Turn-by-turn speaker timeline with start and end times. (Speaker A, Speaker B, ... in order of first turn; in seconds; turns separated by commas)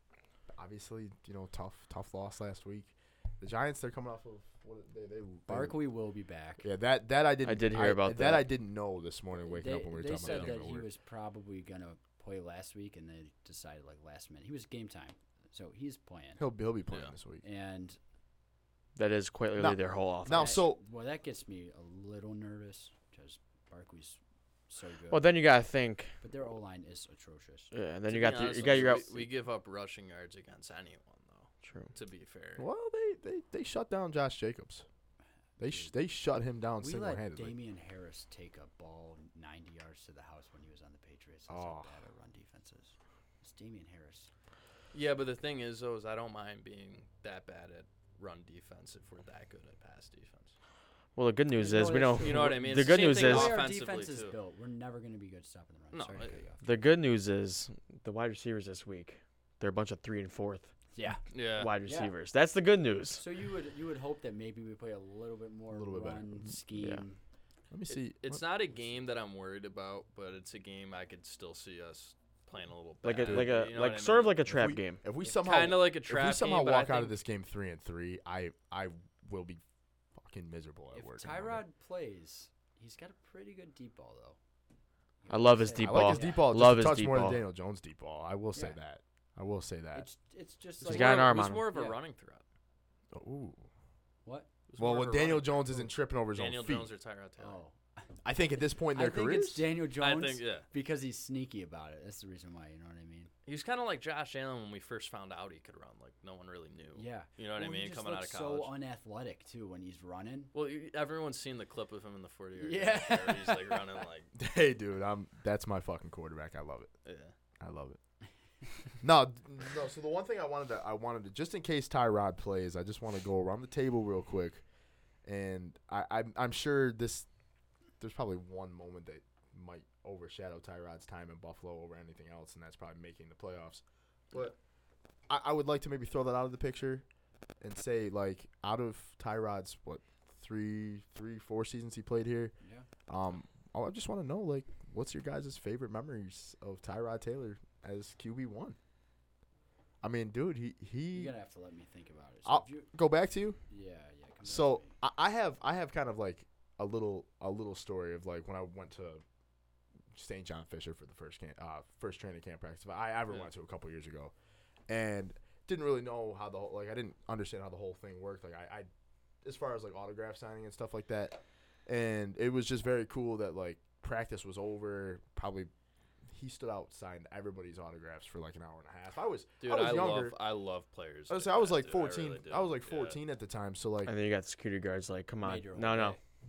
Speaker A: 0.5-5.8, Speaker B: 5.5-6.7, Speaker A: 6.6-10.9, Speaker C: 7.4-8.5, Speaker B: 9.4-16.4, Speaker D: 10.2-10.5, Speaker A: 16.4-17.4, Speaker B: 17.4-18.0, Speaker C: 18.9-20.6, Speaker A: 19.6-20.8, Speaker B: 20.3-25.4, Speaker C: 25.1-26.1, Speaker B: 26.2-27.7, Speaker C: 27.7-29.3, Speaker D: 28.1-32.6, Speaker C: 31.6-31.9, Speaker A: 32.6-34.8, Speaker B: 35.6-35.9, Speaker A: 35.6-37.6, Speaker B: 36.8-44.3, Speaker A: 41.5-41.9, Speaker D: 44.9-50.5, Speaker C: 51.1-53.6, Speaker B: 51.5-56.6, Speaker D: 52.1-54.3, Speaker D: 55.9-56.4, Speaker C: 56.6-60.7, Speaker B: 60.9-62.1, Speaker D: 61.3-61.8, Speaker C: 61.5-63.2, Speaker B: 63.1-67.2, Speaker A: 65.7-66.5, Speaker C: 66.8-67.0, Speaker A: 67.7-68.5, Speaker D: 67.9-74.4, Speaker C: 73.0-75.0, Speaker A: 73.2-73.6, Speaker A: 74.5-79.6, Speaker D: 75.3-77.2, Speaker A: 80.2-81.6, Speaker B: 80.9-84.4, Speaker B: 85.2-86.5, Speaker C: 85.3-87.4, Speaker A: 85.8-90.1, Speaker B: 89.9-92.0, Speaker D: 90.8-92.4, Speaker C: 90.8-91.7, Speaker A: 93.1-93.7, Speaker D: 94.7-97.6, Speaker A: 94.8-96.9, Speaker B: 97.4-98.1, Speaker A: 98.2-99.7, Speaker B: 98.8-103.3, Speaker D: 99.9-100.7, Speaker D: 103.5-108.7, Speaker B: 106.9-110.5, Speaker D: 110.5-114.3, Speaker B: 112.6-113.8, Speaker A: 114.3-116.9, Speaker D: 117.0-117.3, Speaker A: 117.6-118.0, Speaker A: 119.0-124.6, Speaker A: 125.2-127.3, Speaker A: 128.0-134.6, Speaker A: 135.3-137.0, Speaker A: 137.6-142.5, Speaker B: 142.6-142.9, Speaker A: 143.1-148.8, Speaker A: 150.0-151.3, Speaker B: 151.1-152.9, Speaker A: 152.4-153.6, Speaker B: 153.7-155.0, Speaker A: 154.4-159.2, Speaker A: 160.1-164.3, Speaker A: 164.9-168.9, Speaker A: 169.4-175.7, Speaker A: 176.3-180.3, Speaker D: 179.6-183.2, Speaker A: 181.3-184.1, Speaker C: 184.0-186.2, Speaker B: 185.4-186.2